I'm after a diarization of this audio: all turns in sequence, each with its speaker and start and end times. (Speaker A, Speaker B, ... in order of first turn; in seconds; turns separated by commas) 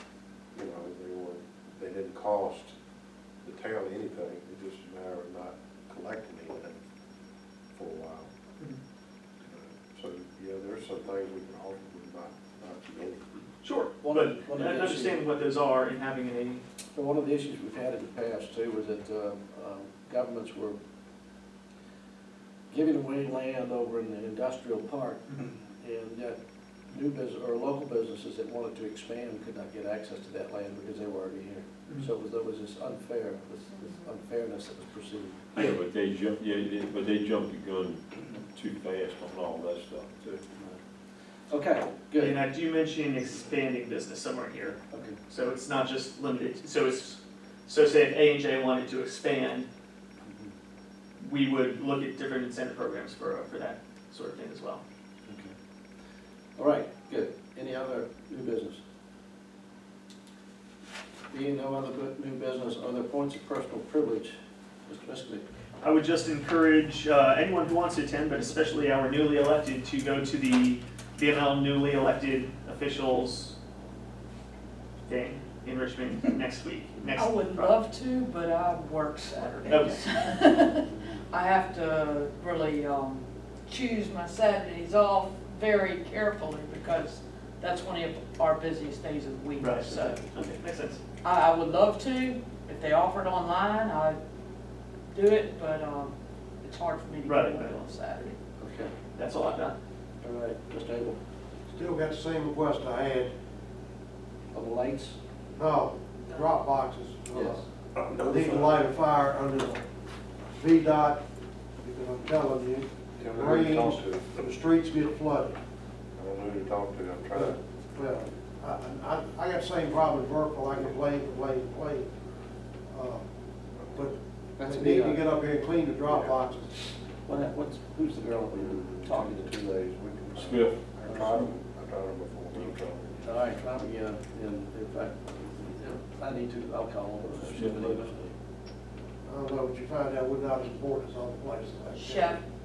Speaker A: 0.5-2.8, Speaker A: 3.4-6.8, Speaker A: 7.7-8.3, Speaker A: 9.5-13.2, Speaker B: 13.6-16.6, Speaker C: 14.0-15.2, Speaker C: 16.9-20.8, Speaker C: 22.7-26.4, Speaker C: 26.9-35.6, Speaker D: 35.5-40.5, Speaker C: 41.5-42.4, Speaker B: 42.2-49.7, Speaker C: 44.9-45.2, Speaker B: 51.2-54.8, Speaker C: 55.3-55.5, Speaker C: 56.6-58.8, Speaker C: 61.3-65.5, Speaker B: 65.8-73.6, Speaker B: 75.1-77.7, Speaker E: 77.1-90.3, Speaker B: 79.4-80.5, Speaker B: 89.6-91.0, Speaker E: 91.2-94.2, Speaker E: 95.1-98.4, Speaker B: 97.2-97.8, Speaker C: 98.6-98.9, Speaker B: 99.2-99.8, Speaker C: 100.2-101.2, Speaker F: 101.7-103.3, Speaker C: 104.5-105.2, Speaker F: 105.5-109.8, Speaker C: 107.3-107.6, Speaker A: 108.1-108.8, Speaker F: 110.5-111.2, Speaker F: 111.8-115.6, Speaker A: 113.2-114.4, Speaker A: 116.2-117.6, Speaker F: 117.3-122.1, Speaker F: 122.9-123.2, Speaker F: 123.9-126.7, Speaker C: 124.6-125.2, Speaker C: 127.3-129.6, Speaker A: 128.5-133.4, Speaker D: 130.3-131.5, Speaker C: 131.1-131.3, Speaker C: 133.2-138.3, Speaker D: 137.3-138.1, Speaker F: 139.2-142.4, Speaker E: 141.9-142.4